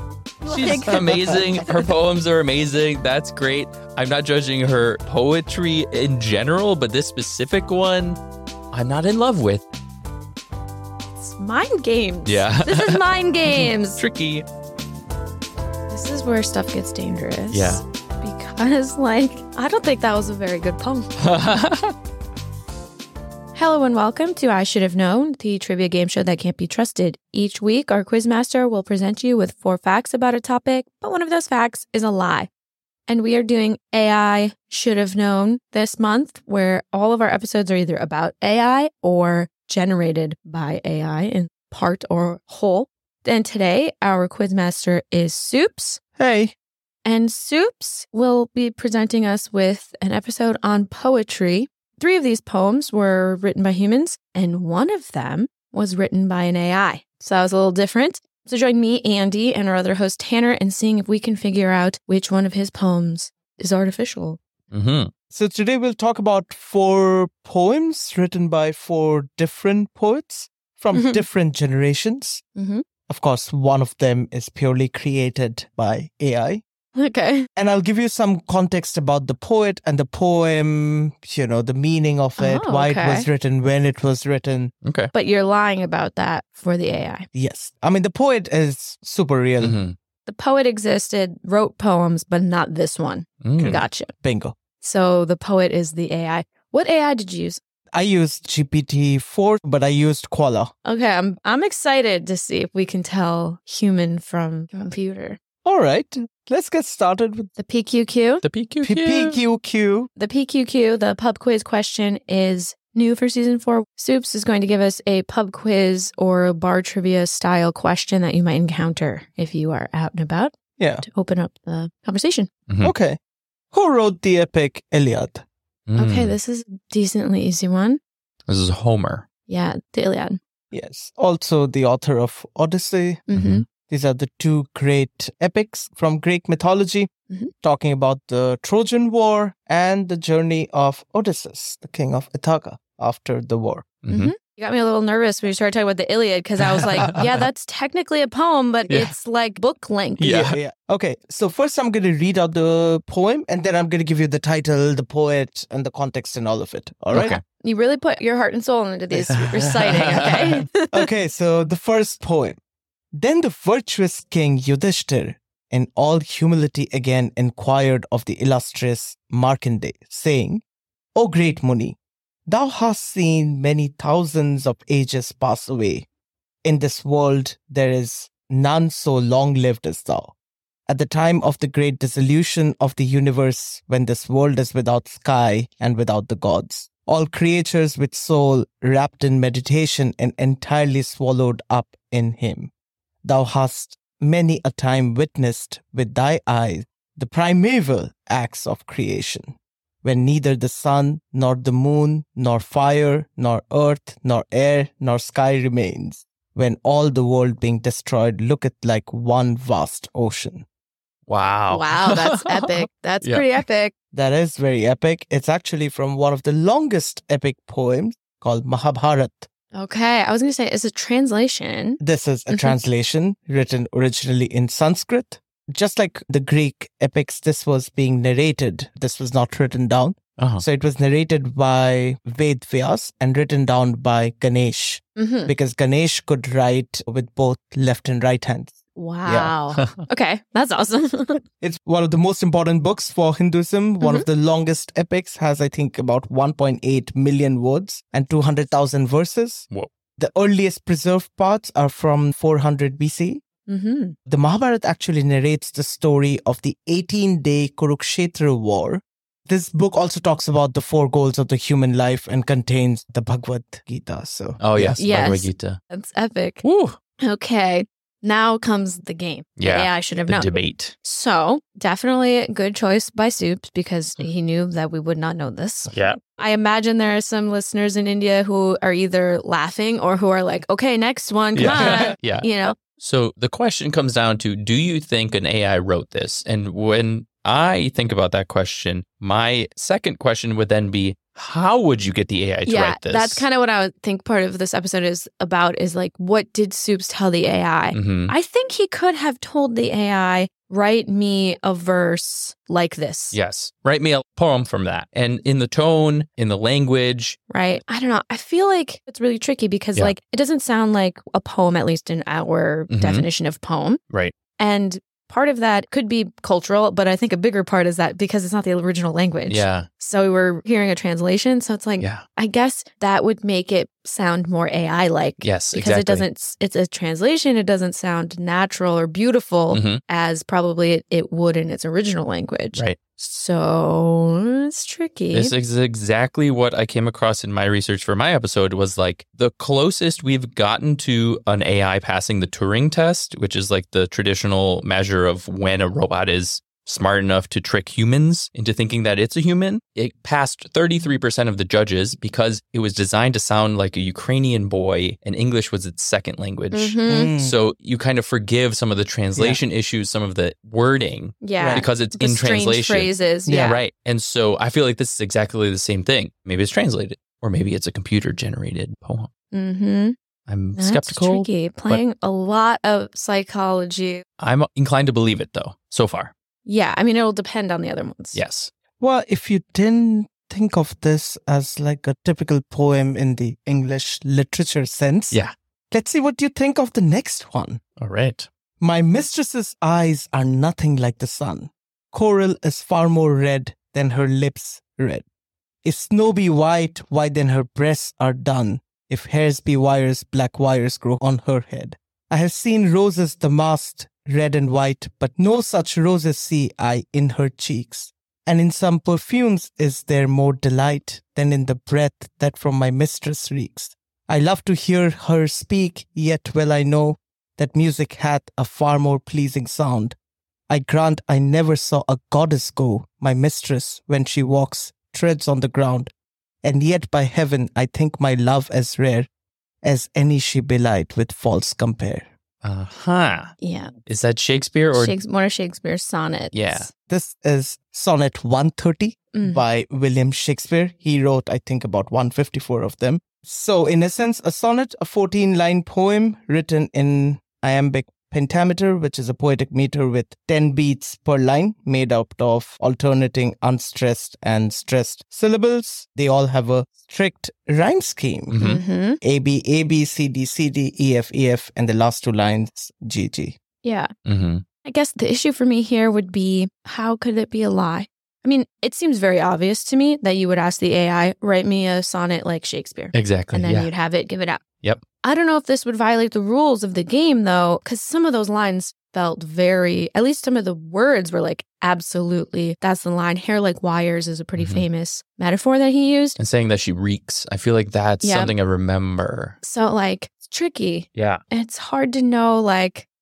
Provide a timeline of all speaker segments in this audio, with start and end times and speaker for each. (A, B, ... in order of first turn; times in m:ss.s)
0:00.4-0:01.6 A
0:00.4-0:08.2 B
0:00.7-0:01.6 C
0:08.7-0:09.6 B
0:11.2-0:14.0 A
0:12.2-0:14.4 B
0:15.9-0:21.1 A
0:17.5-0:17.8 B
0:21.2-0:21.9 B
0:23.5-0:32.5 A
0:33.1-0:46.0 A
0:46.2-0:46.5 C
0:47.0-1:04.4 A
1:04.7-1:05.1 B
1:05.3-1:12.4 C
1:10.9-1:11.2 A
1:12.6-1:12.8 A
1:13.1-1:16.6 C
1:16.9-1:17.5 A
1:17.6-1:24.7 C
1:22.4-1:23.3 A
1:24.8-1:25.1 B
1:25.1-1:27.2 A
1:27.3-1:29.8 C
1:29.6-1:30.0 B
1:30.2-1:34.1 A
1:33.4-1:33.8 B
1:33.6-1:34.6 C
1:34.8-1:37.6 A
1:37.9-1:40.7 C
1:40.8-1:45.4 A
1:45.6-1:47.5 C
1:47.6-1:48.4 A
1:48.4-1:49.4 B
1:48.8-1:50.1 C
1:50.2-2:02.5 A
2:00.8-2:01.0 C
2:02.7-2:02.9 B
2:02.8-2:03.2 C
2:03.7-2:05.4 C
2:05.9-2:06.4 B
2:06.0-2:08.0 A
2:08.5-2:09.2 B
2:09.5-2:10.4 A
2:10.7-2:17.1 C
2:13.3-2:13.6 A
2:13.3-2:13.6 B
2:17.6-2:23.9 C
2:24.0-2:24.3 B
2:24.1-2:30.3 A
2:26.8-2:27.2 B
2:28.9-2:29.1 B
2:30.2-2:30.6 B
2:30.2-2:37.4 C
2:37.1-2:37.4 B
2:37.2-2:41.1 A
2:39.2-2:42.6 C
2:39.3-2:40.4 B
2:43.2-2:50.6 C
2:51.1-2:56.0 C
2:56.6-3:00.3 C
3:00.9-3:12.7 C
3:13.2-3:30.6 C
3:31.3-3:33.5 B
3:31.7-3:33.9 A
3:34.1-3:39.5 C
3:39.7-3:42.8 A
3:42.0-3:59.5 C
3:50.4-3:50.6 B
3:55.2-3:55.5 A
3:59.0-4:01.4 A
3:59.7-4:00.0 B
4:01.6-4:13.4 C
4:04.0-4:04.3 A
4:13.7-4:14.1 A
4:14.2-4:25.0 C
4:24.6-4:25.8 B
4:25.0-4:26.6 A
4:26.6-4:27.0 B
4:27.2-4:42.7 A
4:29.6-4:30.9 B
4:35.9-4:36.2 B
4:41.5-4:53.4 B
4:41.6-4:42.1 C
4:52.6-5:03.4 A
4:57.9-4:58.3 B
5:03.3-5:07.4 B
5:07.5-5:14.0 A
5:12.9-5:13.3 B
5:14.6-5:35.5 A
5:19.5-5:19.9 B
5:22.0-5:22.2 B
5:25.4-5:26.2 B
5:29.7-5:30.0 B
5:35.3-6:09.3 B
5:56.7-5:57.3 A
5:57.0-5:57.6 C
5:59.3-5:59.6 C
6:01.4-6:03.8 A
6:01.6-6:01.9 C
6:03.5-6:03.8 C
6:09.5-6:10.2 A
6:10.5-6:12.0 B
6:10.8-6:14.2 A
6:14.4-6:16.3 B
6:16.6-6:18.4 A
6:18.3-6:18.7 B
6:19.0-6:27.8 C
6:28.0-6:28.5 B
6:28.8-6:35.2 C
6:35.8-7:00.2 C
7:00.7-7:06.1 C
7:06.6-7:09.3 C
7:09.8-7:12.3 C
7:12.6-7:13.6 B
7:13.6-7:13.9 A
7:14.1-7:15.2 B
7:14.9-7:16.9 A
7:16.5-7:16.9 B
7:17.1-7:38.6 C
7:19.3-7:19.6 A
7:38.5-7:38.8 B
7:38.6-7:39.2 A
7:39.2-7:43.6 C
7:43.8-7:44.1 A
7:44.2-7:44.6 B
7:44.8-7:54.6 A
7:53.1-7:53.9 B
7:55.2-8:06.4 A
8:04.6-8:04.8 B
8:06.4-8:09.6 B
8:08.2-8:08.5 A
8:09.6-8:13.1 A
8:11.1-8:11.4 B